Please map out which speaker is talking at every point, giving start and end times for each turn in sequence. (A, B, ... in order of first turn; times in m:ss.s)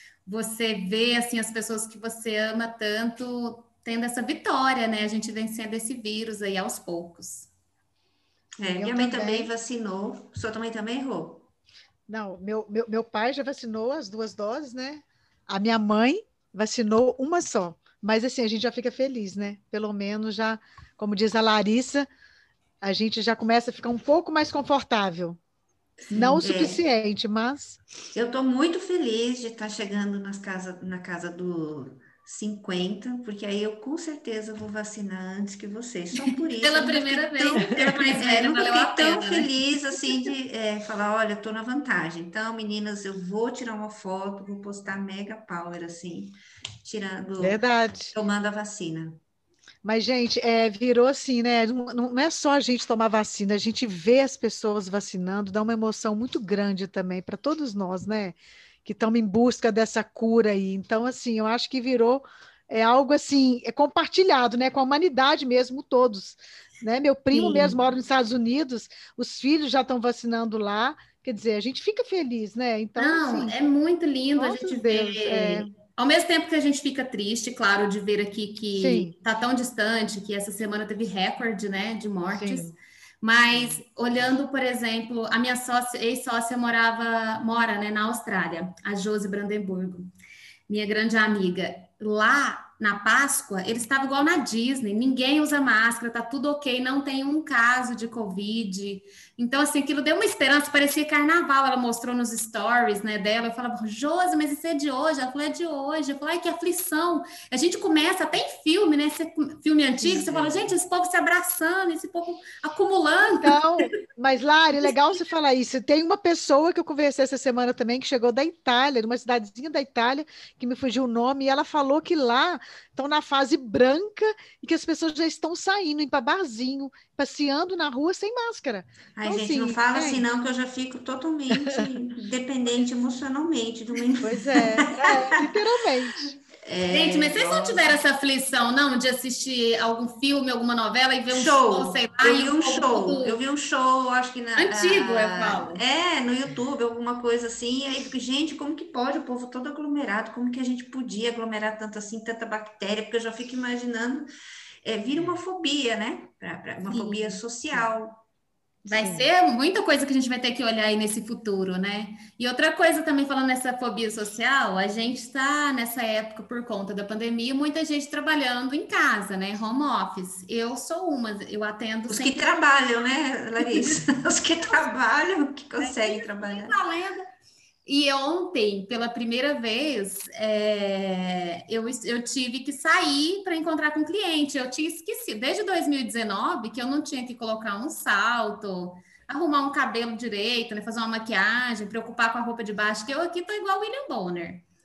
0:00.2-0:07.5 A
0:08.6-0:11.5 B
0:08.7-0:09.5 C
0:12.1-0:22.1 C
0:22.8-0:25.4 C
0:26.1-0:26.8 B
0:26.1-0:27.8 C
0:28.1-0:47.6 B
0:36.3-0:39.5 A
0:47.4-0:48.1 C
0:48.1-0:49.2 B
0:49.8-1:13.5 C
1:07.3-1:07.8 A
1:13.0-1:30.1 A
1:14.4-1:15.7 C
1:18.8-1:19.1 C
1:22.3-1:22.7 C
1:30.7-1:53.9 A
1:50.0-1:50.7 B
1:53.4-2:10.2 C
2:09.2-2:15.5 B
2:14.2-2:16.4 C
2:16.6-2:18.0 B
2:16.9-2:23.4 A
2:21.3-2:34.2 B
2:24.6-2:25.8 A
2:34.8-2:38.2 B
2:36.9-2:37.4 A
2:38.8-2:52.4 A
2:38.9-2:39.3 C
2:52.1-2:56.8 B
2:53.6-2:54.0 A
2:55.8-2:57.2 A
2:57.8-3:14.6 A